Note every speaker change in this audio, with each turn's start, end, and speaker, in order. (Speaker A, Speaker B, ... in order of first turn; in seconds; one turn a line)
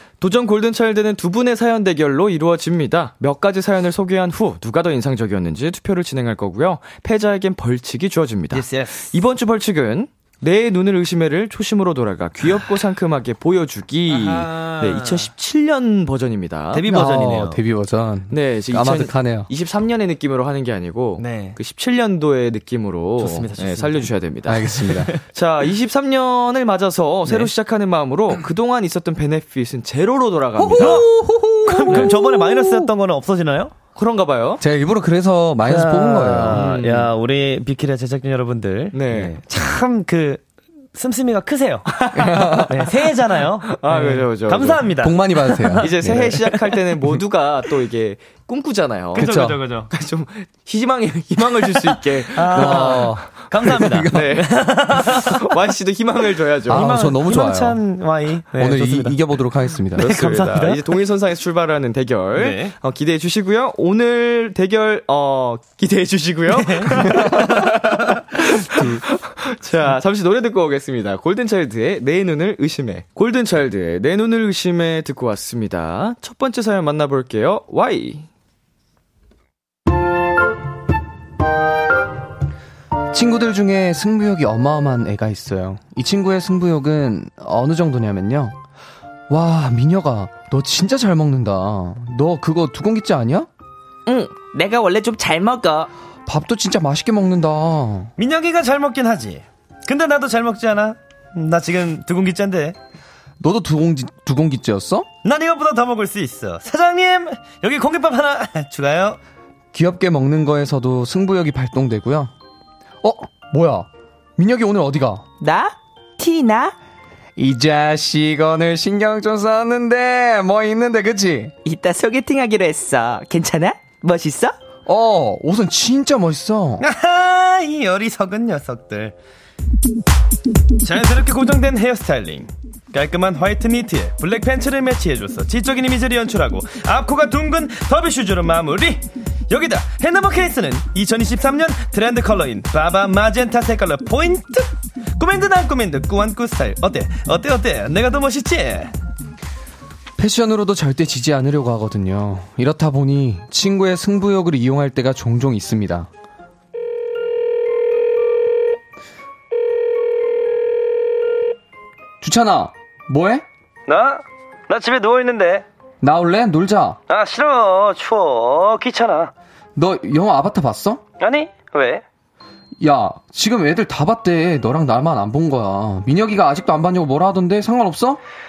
Speaker A: 0.2-16.9
Speaker B: 8.5-9.1
Speaker B: 14.1-15.3
Speaker B: 16.7-17.6
Speaker C: 16.8-19.5
Speaker A: 18.3-31.0
Speaker B: 21.2-21.6
Speaker B: 23.2-24.1
Speaker C: 24.4-25.1
Speaker B: 24.9-25.2
Speaker C: 30.6-32.9
Speaker B: 30.8-31.1
Speaker B: 31.6-33.7
Speaker A: 34.0-34.6
Speaker C: 34.6-36.6
Speaker B: 35.6-40.4
Speaker A: 36.5-37.1
Speaker A: 38.9-39.3
Speaker B: 40.9-46.6
Speaker A: 41.9-42.7
Speaker C: 42.1-42.9
Speaker A: 43.7-44.9
Speaker C: 45.0-46.4
Speaker A: 45.8-49.3
Speaker B: 49.1-49.9
Speaker C: 49.1-49.6
Speaker A: 49.9-53.1
Speaker B: 52.3-55.4
Speaker C: 52.5-54.4
Speaker A: 54.1-56.9
Speaker C: 56.7-57.8
Speaker B: 56.7-59.2
Speaker C: 58.5-60.1
Speaker B: 59.9-60.8
Speaker A: 60.0-78.3
Speaker B: 62.3-62.7
Speaker B: 66.5-67.9
Speaker C: 83.1-88.5
Speaker C: 89.3-93.5
Speaker D: 94.1-95.9
Speaker C: 96.2-98.1
Speaker B: 98.2-102.8
Speaker C: 103.4-105.1
Speaker B: 105.2-109.2
Speaker C: 109.7-112.3
Speaker C: 113.0-115.2
Speaker D: 115.4-116.7
Speaker C: 117.4-121.5
Speaker D: 121.6-124.5
Speaker C: 124.8-126.8
Speaker B: 126.8-129.1
Speaker B: 130.8-148.9
Speaker C: 150.2-156.1
Speaker C: 162.2-163.4
Speaker B: 163.9-165.6
Speaker C: 166.0-167.0
Speaker B: 167.1-169.3
Speaker C: 169.8-171.0
Speaker B: 171.2-172.0
Speaker C: 172.8-178.2